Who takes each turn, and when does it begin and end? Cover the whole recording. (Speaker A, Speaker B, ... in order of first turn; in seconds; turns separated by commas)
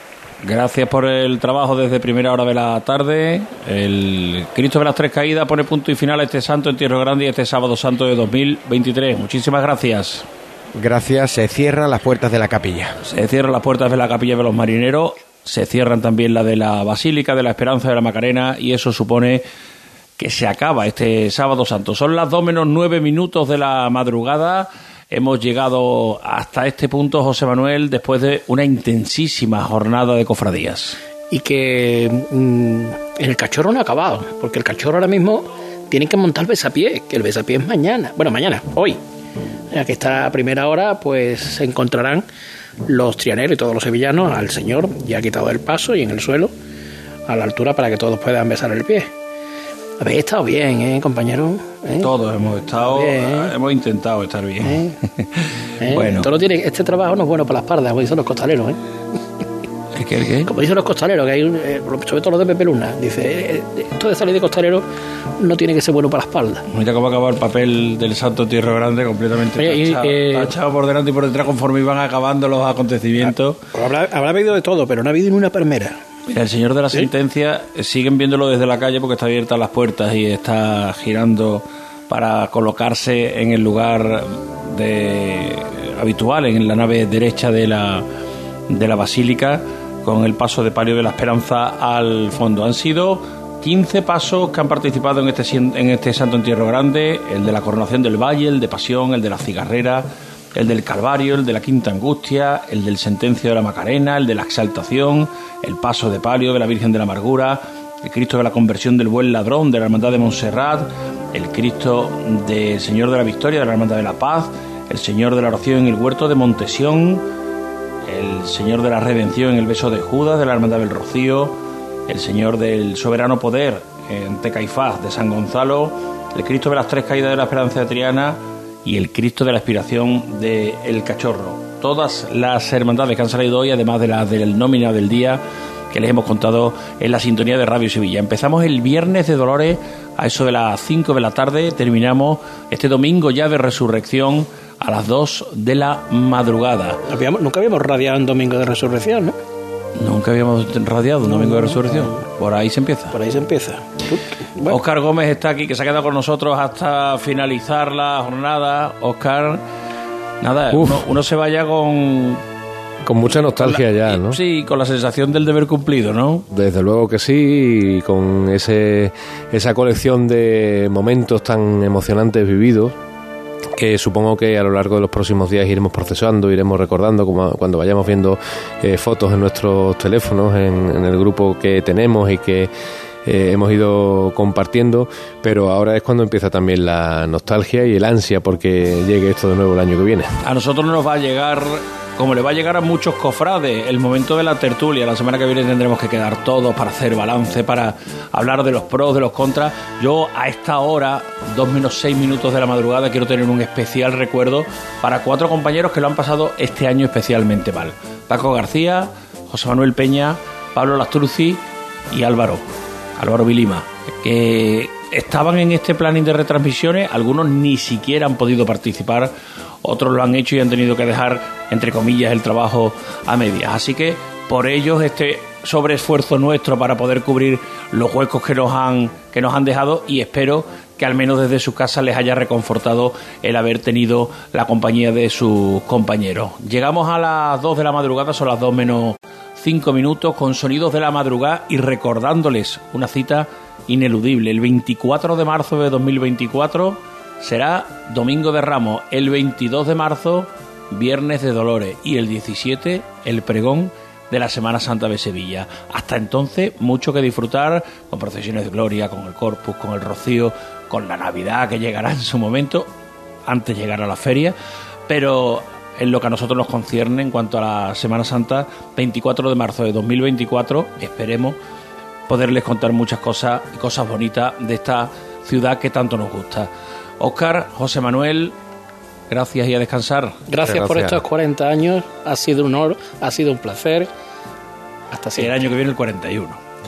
Speaker A: 0.4-10.2, Speaker B: 10.7-13.0, Speaker A: 13.0-19.4, Speaker A: 20.2-31.0, Speaker C: 31.3-39.0, Speaker C: 39.7-42.2, Speaker C: 42.9-46.5, Speaker C: 47.3-49.1, Speaker C: 50.0-52.1, Speaker A: 52.0-56.3, Speaker C: 52.8-53.5, Speaker C: 54.6-55.0, Speaker C: 55.8-58.8, Speaker A: 59.9-60.5, Speaker C: 60.5-64.8, Speaker C: 65.4-66.6, Speaker A: 66.7-73.7, Speaker C: 69.5-70.5, Speaker C: 73.2-76.0, Speaker A: 76.3-88.0, Speaker A: 88.7-117.2, Speaker A: 118.0-147.0, Speaker C: 147.1-149.3, Speaker A: 150.0-153.2, Speaker C: 151.2-152.2, Speaker C: 153.1-154.8, Speaker A: 154.6-159.6, Speaker A: 160.4-162.4, Speaker D: 160.7-161.1, Speaker D: 163.0-164.4, Speaker A: 163.3-166.4, Speaker D: 166.5-172.9, Speaker D: 173.7-182.7, Speaker D: 183.2-190.3, Speaker A: 190.4-212.6, Speaker A: 213.2-219.3, Speaker A: 219.8-262.9, Speaker A: 263.5-264.5, Speaker A: 265.1-271.6, Speaker A: 272.3-278.5, Speaker A: 279.3-280.4, Speaker C: 280.5-284.1, Speaker D: 280.6-281.2, Speaker C: 285.1-285.6, Speaker A: 285.4-286.6